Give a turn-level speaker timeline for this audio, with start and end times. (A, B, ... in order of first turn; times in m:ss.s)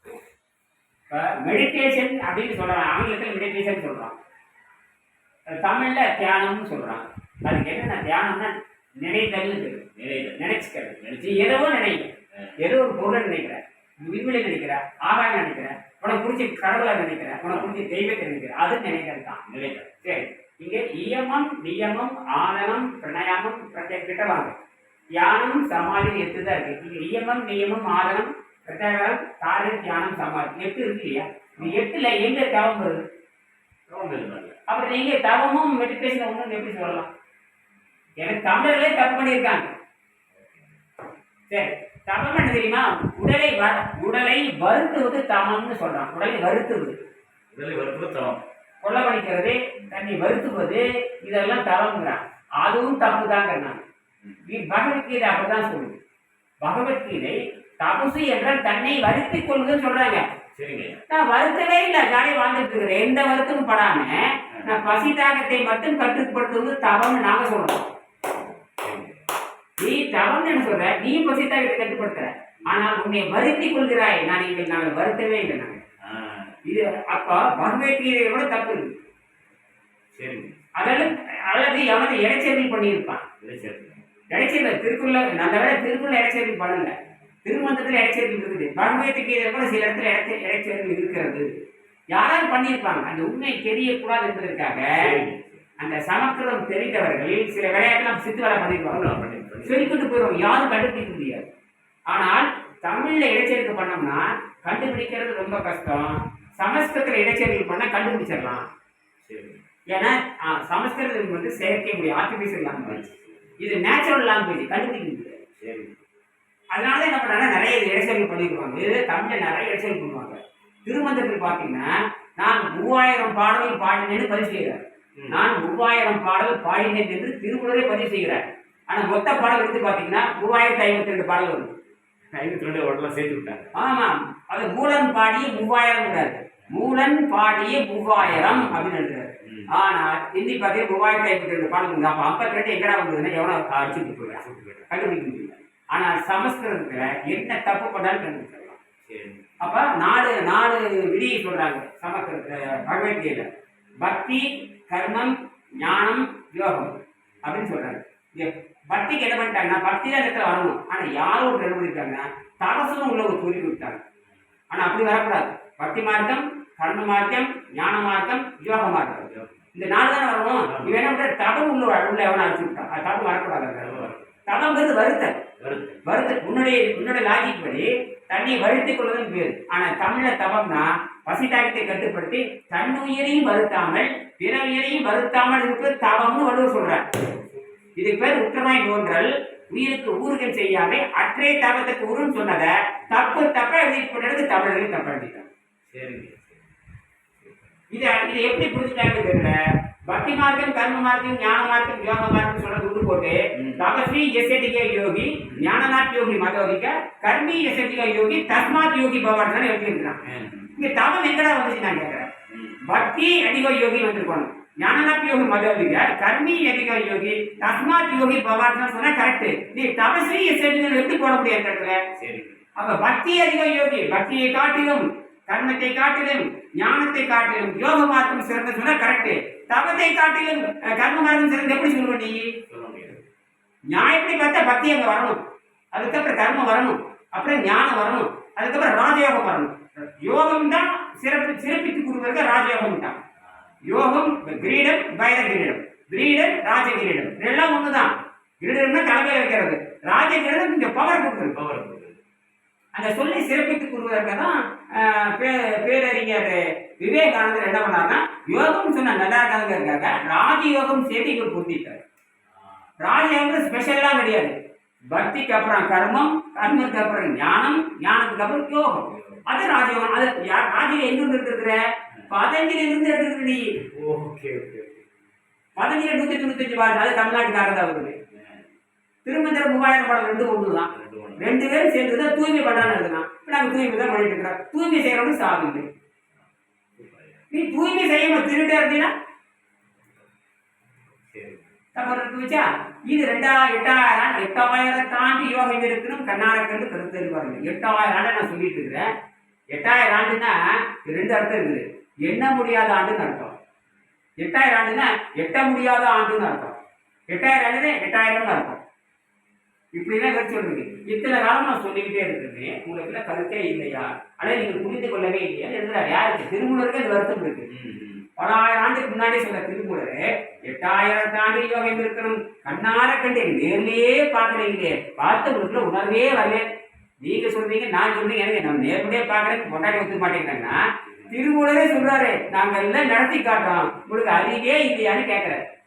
0:01.1-0:04.2 A
0:05.5-0:09.8 A
0:10.0-0:11.5 B
0:10.4-0:19.4 A
0:12.3-0:12.6 B
0:17.5-0:17.8 B
0:19.5-0:20.2 B
0:20.0-0:24.6 A
0:25.2-0:33.0 A
0:33.9-0:34.6 B
0:34.7-0:37.1 A
0:38.2-0:39.7 A
0:40.3-0:40.8 B
0:41.5-0:47.0 A
0:47.5-0:48.4 B
0:48.8-0:53.8 A
0:54.4-0:56.0 A
0:56.6-1:00.2 A
1:00.5-1:01.0 B
1:01.1-1:07.9 A
1:08.3-1:09.2 B
1:09.8-1:15.8 A
1:16.0-1:16.6 B
1:16.6-1:18.9 A
1:20.1-1:21.0 B
1:20.7-1:23.2 A
1:23.4-1:24.1 B
1:24.3-1:31.5 A
1:32.1-1:35.1 A
1:34.9-1:35.6 B
1:35.8-1:39.1 A
1:38.9-1:40.0 B
1:39.6-1:41.5 A
1:42.1-1:48.6 A
1:49.2-1:49.6 B
1:49.9-1:55.4 A
1:52.8-1:53.6 B
1:55.6-1:56.0 B
1:56.7-2:11.8 A
2:12.3-2:13.7 B
2:13.7-2:28.8 A
2:18.3-2:18.8 B
2:19.4-2:19.7 B
2:23.7-2:24.9 B
2:29.0-2:29.6 B
2:29.6-2:33.5 A
2:34.0-2:44.0 A
2:44.7-2:55.4 A
2:49.3-2:49.6 B
2:50.6-2:51.0 B
2:53.8-2:54.3 B
2:55.6-2:56.1 B
2:56.0-3:07.1 A
3:08.0-3:15.5 A
3:15.9-3:16.7 B
3:17.3-3:17.8 B
3:17.9-3:30.2 A
3:23.5-3:23.8 B
3:30.2-3:30.7 B
3:30.7-3:32.3 A
3:32.5-3:32.8 B
3:32.8-3:42.0 A
3:42.2-3:42.6 B
3:42.8-3:52.5 A
3:52.7-3:53.2 B
3:53.9-3:55.4 A
3:55.9-4:03.2 A
4:03.5-4:03.7 B
4:03.8-4:11.6 A
4:11.5-4:12.2 B
4:12.9-4:22.0 A
4:22.5-4:22.9 B
4:23.0-4:33.8 A
4:29.1-4:29.4 B
4:33.9-4:35.0 B
4:35.8-4:38.2 A
4:38.3-4:38.7 B
4:39.2-4:45.9 A
4:40.9-4:41.6 B
4:46.3-4:47.5 B
4:47.5-4:49.1 A
4:51.3-4:51.8 B
4:51.9-4:59.1 A
4:59.7-5:03.6 A
5:04.4-5:06.8 A
5:07.3-5:08.8 A
5:09.9-5:17.7 A
5:17.7-5:18.2 B
5:18.4-5:26.6 A
5:27.2-5:35.6 A